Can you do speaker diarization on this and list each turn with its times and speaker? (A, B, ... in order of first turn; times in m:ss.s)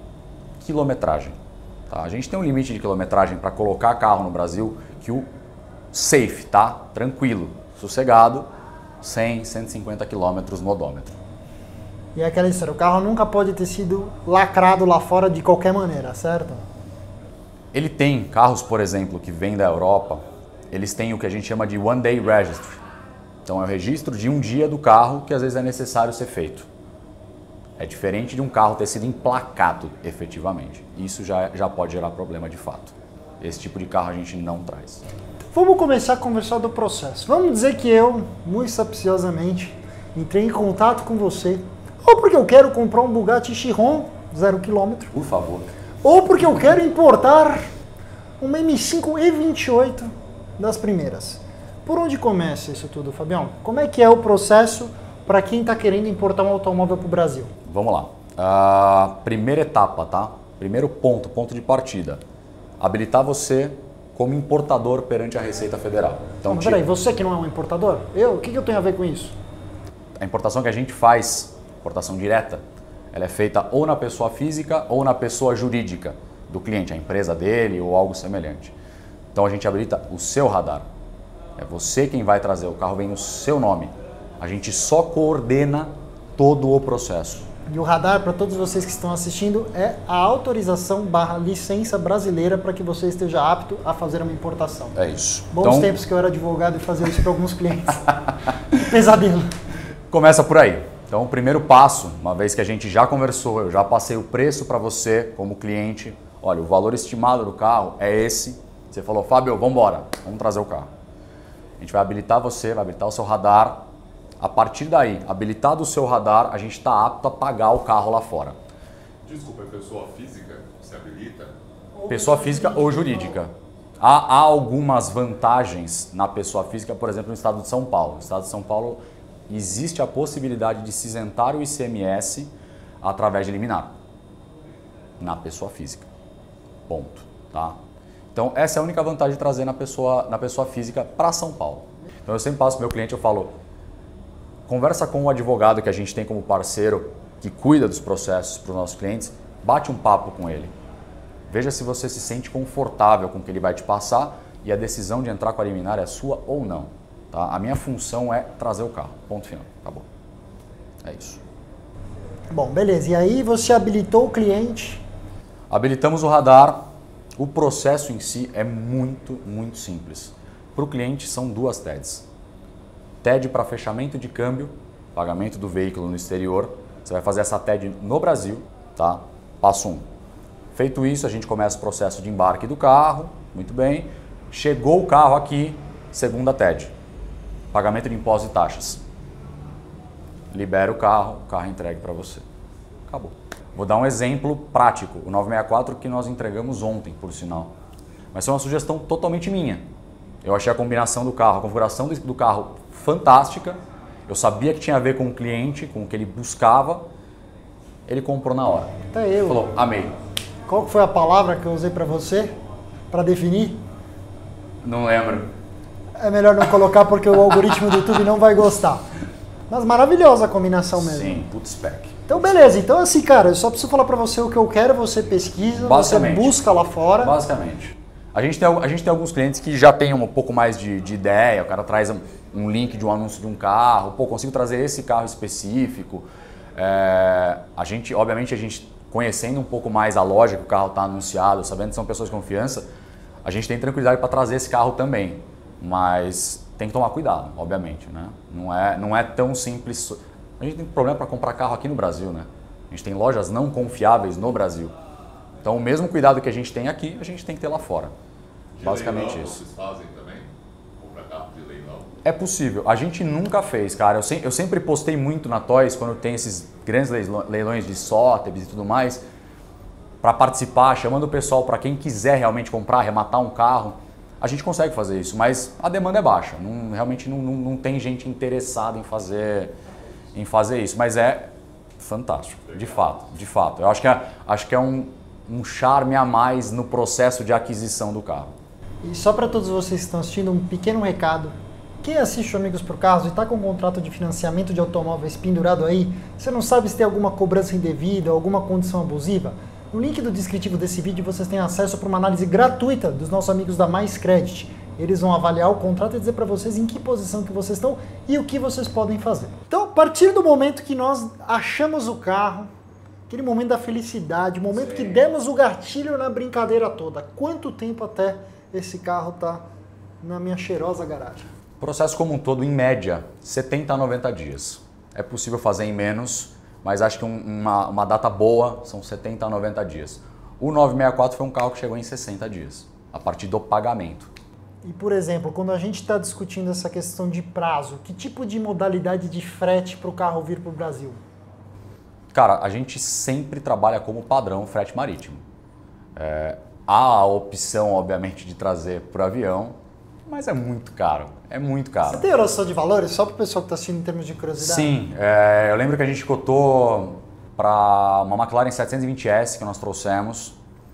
0:00.6-0:01.4 A
0:01.9-0:05.2 A
0:05.9-0:08.5 A
0:09.0-0:11.2 A
0:12.1-0:16.6 B
0:17.7-0:22.8 A
0:23.4-0:26.7 A
0:27.8-0:35.0 A
0:35.5-0:45.1 B
0:45.1-0:45.7 A
0:46.0-0:47.7 B
0:48.4-0:57.5 B
0:57.6-1:02.2 A
1:02.8-1:06.8 A
1:06.4-1:09.4 B
1:10.2-1:18.7 A
1:19.3-1:20.8 A
1:21.6-1:27.5 A
1:27.7-1:35.0 B
1:34.9-1:36.0 A
1:35.5-1:38.1 B
1:38.7-1:39.5 B
1:40.1-1:50.9 A
1:51.8-1:53.8 A
1:54.4-1:58.6 A
1:59.2-2:01.5 C
2:02.0-2:03.4 B
2:02.1-2:13.9 A
2:15.2-2:16.1 A
2:16.9-2:17.8 A
2:18.3-2:23.6 A
2:24.7-2:30.7 A
2:31.5-2:40.0 A
2:41.0-2:41.4 A
2:42.5-2:45.0 B
2:45.7-2:52.3 A
2:53.2-3:00.0 A
3:00.7-3:06.9 A
3:07.7-3:09.0 A
3:10.5-3:12.4 A
3:13.1-3:17.7 A
3:18.3-3:19.8 A
3:20.4-3:27.0 A
3:28.1-3:28.9 A
3:29.1-3:29.6 B
3:29.4-3:30.1 A
3:30.7-3:32.5 B
3:33.1-3:33.8 B
3:34.8-3:35.5 A
3:36.2-3:39.0 B
3:39.7-3:41.4 B
3:41.0-3:42.2 A
3:42.3-3:47.3 B
3:45.7-3:46.6 A
3:47.2-4:02.8 A
4:03.4-4:14.9 A
4:15.6-4:18.1 A
4:18.8-4:22.2 C
4:18.8-4:19.6 A
4:22.2-4:29.2 A
4:30.2-4:39.7 A
4:40.3-4:48.5 A
4:49.0-5:12.7 B
5:13.3-5:19.6 B
5:14.7-5:15.2 A
5:20.2-5:21.5 B
5:21.8-5:34.3 A
5:34.8-5:41.2 B
5:42.3-5:45.4 A
5:46.2-5:52.2 A
5:52.0-5:55.0 B
5:54.6-6:00.6 A